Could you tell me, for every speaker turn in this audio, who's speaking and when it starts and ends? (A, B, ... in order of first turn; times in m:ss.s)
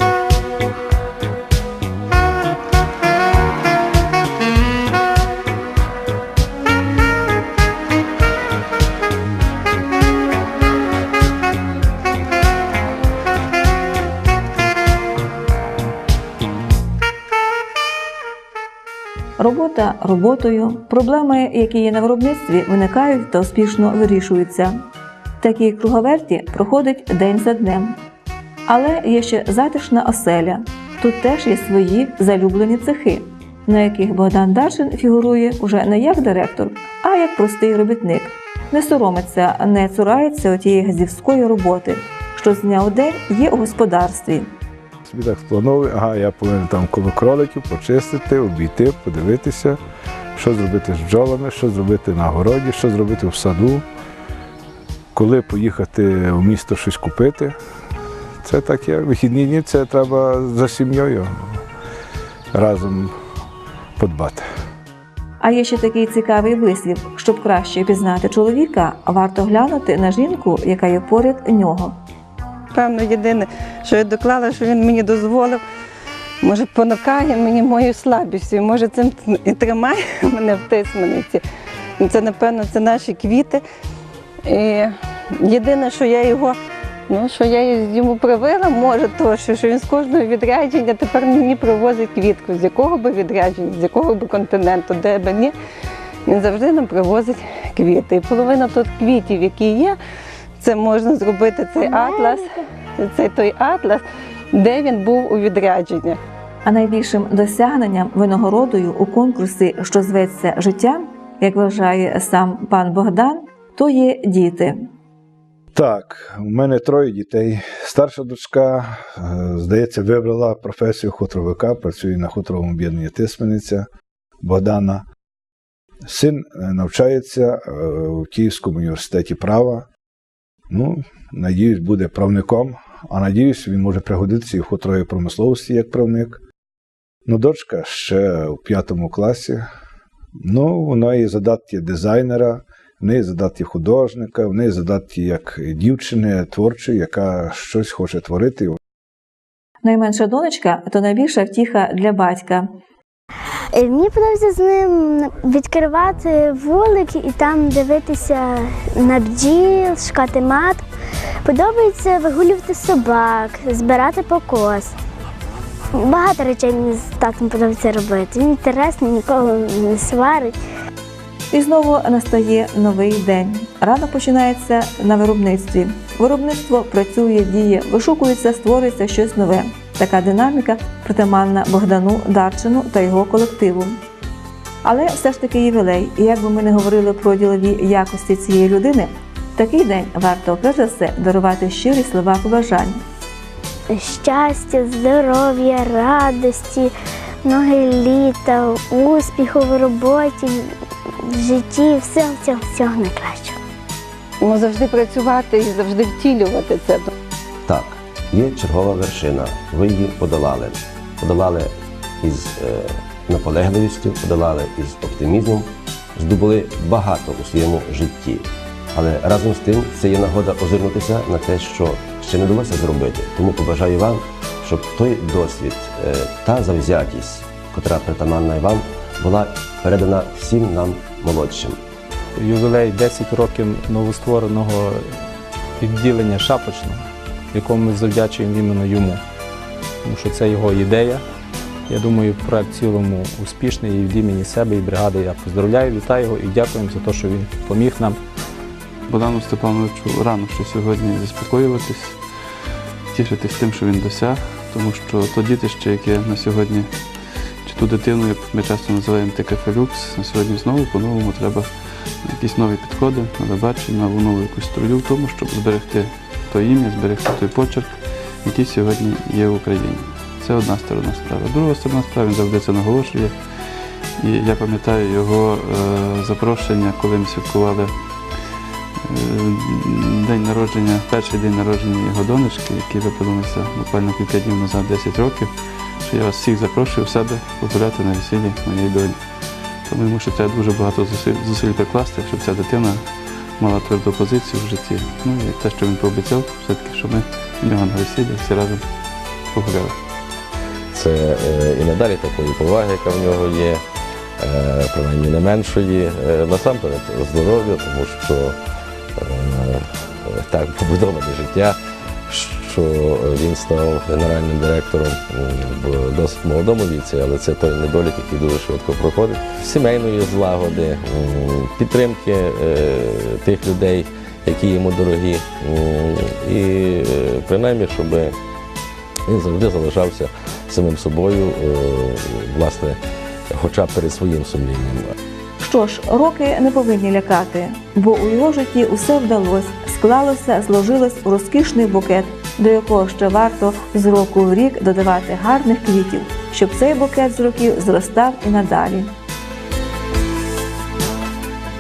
0:19.4-0:24.7 A
0:25.4-0:28.0 A
0:28.7-0:44.5 A
0:45.1-0:49.8 B
0:50.4-0:53.8 B
0:55.2-0:57.6 B
0:58.4-1:01.3 B
1:02.5-1:03.1 B
1:04.0-1:04.4 B
1:05.4-1:12.0 A
1:12.7-1:15.6 C
1:16.4-1:21.4 C
1:22.0-1:23.6 C
1:24.4-1:26.6 C
1:27.1-1:35.5 C
1:36.3-1:40.0 C
1:40.6-1:46.2 C
1:41.8-1:42.5 D
1:46.6-1:54.8 A
1:55.7-2:03.9 B
2:04.4-2:05.0 B
2:06.1-2:09.9 B
2:10.7-2:16.4 B
2:17.3-2:19.6 B
2:20.4-2:28.8 B
2:29.8-2:32.7 A
2:33.7-2:40.8 D
2:41.4-2:44.9 D
2:46.0-2:50.6 D
2:51.5-3:03.9 A
3:04.8-3:13.0 A
3:13.9-3:16.9 D
3:17.4-3:20.6 D
3:21.3-3:23.6 D
3:24.4-3:27.1 C
3:27.7-3:51.8 E
3:52.4-3:55.1 F
3:55.8-3:59.2 F
4:00.0-4:01.2 F
4:01.9-4:08.2 F
4:09.1-4:38.5 G
4:39.0-4:58.8 G
4:59.5-5:00.0 G
5:00.9-5:03.8 H
5:04.4-5:08.6 H
5:09.2-5:28.4 H
5:29.3-5:33.0 H
5:33.5-5:35.1 H
5:35.6-5:49.1 A